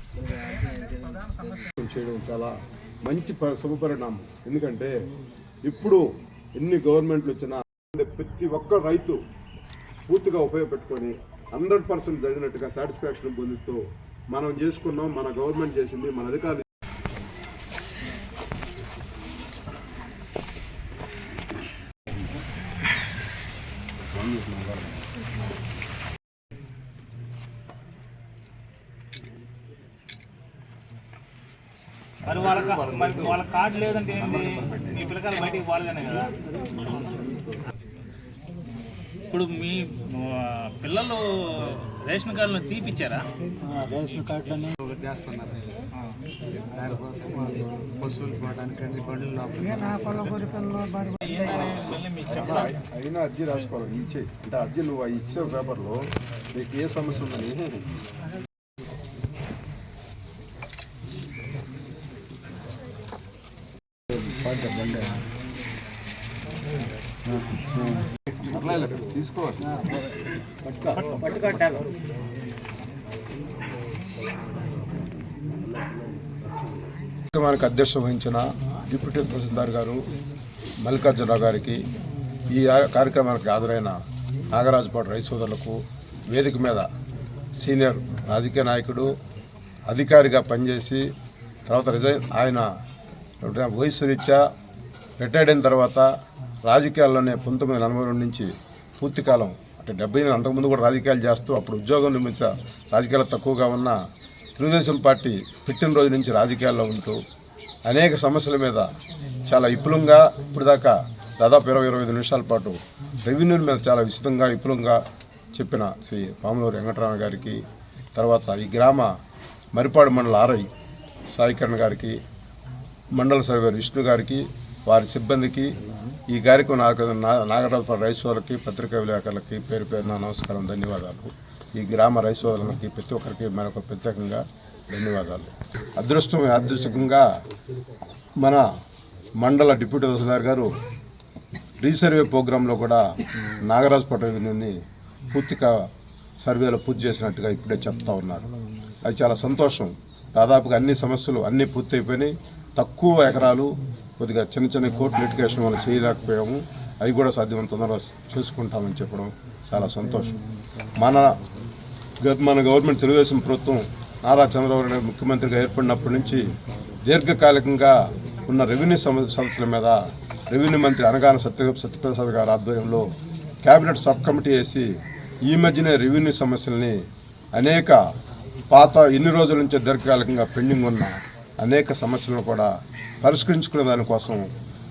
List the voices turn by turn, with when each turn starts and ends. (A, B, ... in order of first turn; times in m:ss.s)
0:00.2-0:01.7 A
0:01.8-0:04.9 B
0:05.6-0:06.0 B
0:06.6-0:09.2 B
0:10.1-0:16.6 B
0:24.1-0:25.0 B
0:32.2-0:37.1 A
0:32.8-0:33.4 B
0:39.3-0:44.8 A
0:44.8-0:45.6 C
0:46.7-0:49.6 C
0:49.6-0:52.7 A
0:52.3-0:57.8 B
1:08.4-1:09.8 B
1:11.0-1:11.8 A
1:17.3-1:20.0 B
1:20.8-1:21.8 B
1:22.5-1:24.0 B
1:24.5-1:26.8 B
1:27.6-1:29.1 B
1:29.9-1:31.0 B
1:31.7-1:32.6 B
1:33.4-1:34.4 B
1:35.2-1:36.1 B
1:36.6-1:38.5 B
1:39.0-1:44.0 B
1:44.6-1:47.2 B
1:47.9-1:48.9 B
1:49.4-1:55.0 B
1:55.5-1:57.6 B
1:58.1-1:59.1 B
1:59.7-2:00.7 B
2:01.3-2:02.2 B
2:03.2-2:05.7 B
2:06.3-2:17.2 B
2:18.4-2:18.6 B
2:19.4-2:20.7 B
2:21.8-2:23.0 B
2:23.6-2:24.7 B
2:25.3-2:25.7 B
2:26.4-2:28.5 B
2:29.0-2:40.4 B
2:41.0-2:41.3 B
2:42.2-2:46.4 B
2:47.0-2:50.0 B
2:50.5-2:53.1 B
2:53.6-2:54.9 B
2:55.4-2:57.0 B
2:57.5-2:58.0 B
2:58.7-3:02.7 B
3:03.2-3:04.5 B